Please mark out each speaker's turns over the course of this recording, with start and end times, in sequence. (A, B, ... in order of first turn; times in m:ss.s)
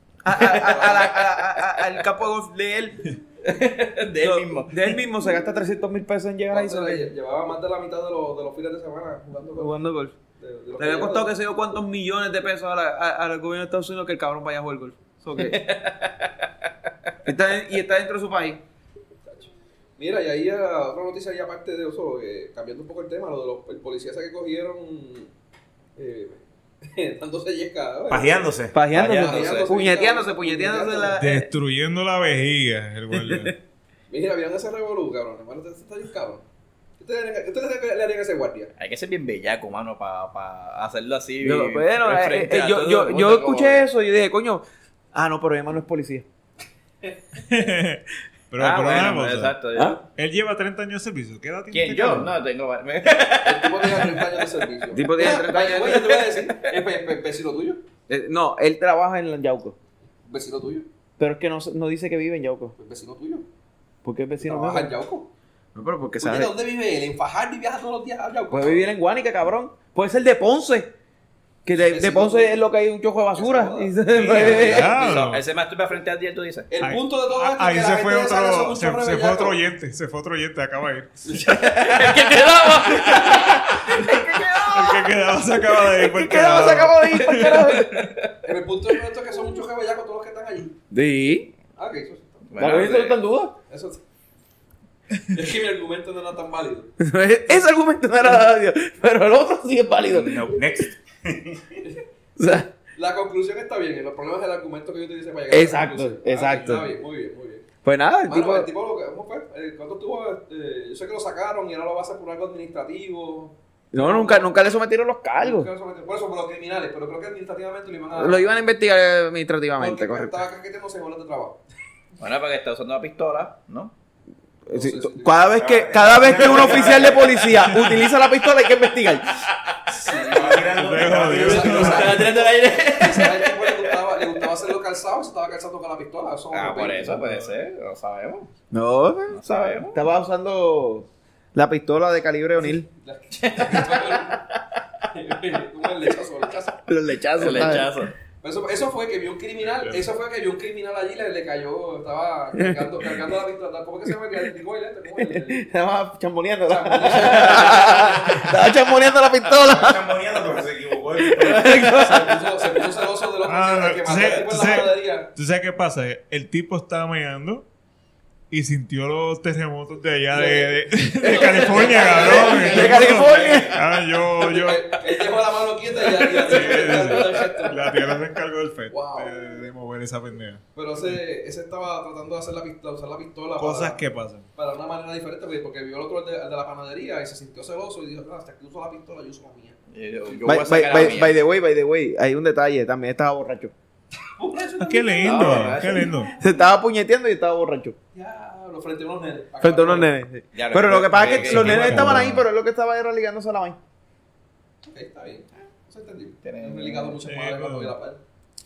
0:00.2-0:03.2 A
0:00.4-0:01.2 B
0:00.4-0:01.8 C
0:03.4-0:05.0 C
0:04.2-0:07.1 A
0:06.5-0:09.8 B
0:09.6-0:10.2 A
0:10.4-0:11.3 B
0:10.8-0:15.6 A
0:15.4-0:16.7 C
0:17.2-0:18.6 A
0:19.3-0:25.3 B
0:26.0-0:31.2 B
0:28.1-0:28.8 D
0:28.7-0:31.5 A
0:28.9-0:29.7 C
0:31.2-0:33.5 E
0:33.1-0:33.5 A
0:34.1-0:36.5 B
0:37.0-0:38.7 B
0:38.8-0:43.9 C
0:41.4-0:46.2 A
0:47.4-0:49.6 E
0:48.6-0:50.0 C
0:50.1-0:52.4 E
0:51.7-0:54.4 C
0:53.4-0:57.8 B
0:54.9-0:56.1 A
0:56.2-0:56.6 C
0:58.1-0:59.8 A
1:00.3-1:00.9 B
1:01.2-1:02.7 A
1:02.8-1:03.5 B
1:04.0-1:04.9 A
1:04.4-1:05.3 B
1:05.8-1:06.5 A
1:06.2-1:08.9 B
1:08.5-1:10.9 A
1:11.6-1:15.0 A
1:11.8-1:12.6 B
1:13.4-1:15.3 B
1:14.1-1:14.7 D
1:14.4-1:16.7 C
1:14.6-1:15.4 E
1:16.7-1:19.6 B
1:16.8-1:21.4 E
1:21.2-1:23.7 B
1:21.4-1:24.0 C
1:23.9-1:25.1 A
1:24.6-1:27.8 E
1:25.9-1:28.1 A
1:27.1-1:28.3 C
1:28.4-1:30.8 B
1:30.9-1:31.5 A
1:31.8-1:33.0 B
1:32.5-1:33.2 C
1:32.6-1:33.6 A
1:33.7-1:34.0 B
1:35.2-1:37.0 B
1:37.0-1:40.6 A
1:40.0-1:41.8 D
1:42.4-1:42.7 A
1:43.0-1:47.7 B
1:45.5-1:46.9 A
1:47.8-1:48.7 A
1:48.3-1:54.6 B
1:53.9-1:55.7 A
1:55.4-1:58.5 B
1:58.2-2:00.4 A
1:59.8-2:01.6 B
2:02.2-2:03.9 C
2:04.7-2:09.4 A
2:04.7-2:05.4 B
2:05.5-2:07.5 D
2:06.2-2:07.3 B
2:07.7-2:07.9 E
2:09.5-2:10.3 C
2:09.9-2:17.2 B
2:10.2-2:12.2 D
2:10.7-2:12.3 E
2:11.6-2:14.2 C
2:16.5-2:18.5 C
2:17.1-2:17.5 E
2:18.7-2:22.9 A
2:19.3-2:20.0 C
2:22.6-2:24.4 B
2:23.4-2:24.3 C
2:25.1-2:26.8 B
2:26.9-2:28.0 A
2:27.4-2:28.1 C
2:28.4-2:35.7 B
2:29.7-2:30.1 E
2:32.6-2:33.0 A
2:35.2-2:40.5 A
2:36.7-2:38.5 B
2:39.6-2:41.9 D
2:41.2-2:42.8 A
2:41.6-2:45.3 B
2:43.4-2:47.7 E
2:48.5-2:55.0 E
2:50.3-2:52.9 B
2:51.4-2:53.8 A
2:51.9-2:52.6 C
2:52.3-2:53.8 D
2:54.3-2:58.2 B
2:56.2-3:01.2 E
2:56.6-2:57.4 C
2:58.9-2:59.6 B
3:00.8-3:04.0 B
3:03.6-3:04.5 E
3:04.6-3:11.2 B
3:09.9-3:11.4 C
3:10.4-3:13.7 A
3:14.2-3:16.6 B
3:14.8-3:16.3 E
3:15.2-3:16.1 C
3:16.4-3:18.0 A
3:18.2-3:20.1 B
3:19.6-3:23.8 A
3:20.5-3:22.3 C
3:21.2-3:22.4 E
3:24.8-3:28.2 B
3:26.4-3:27.2 C
3:27.2-3:28.0 E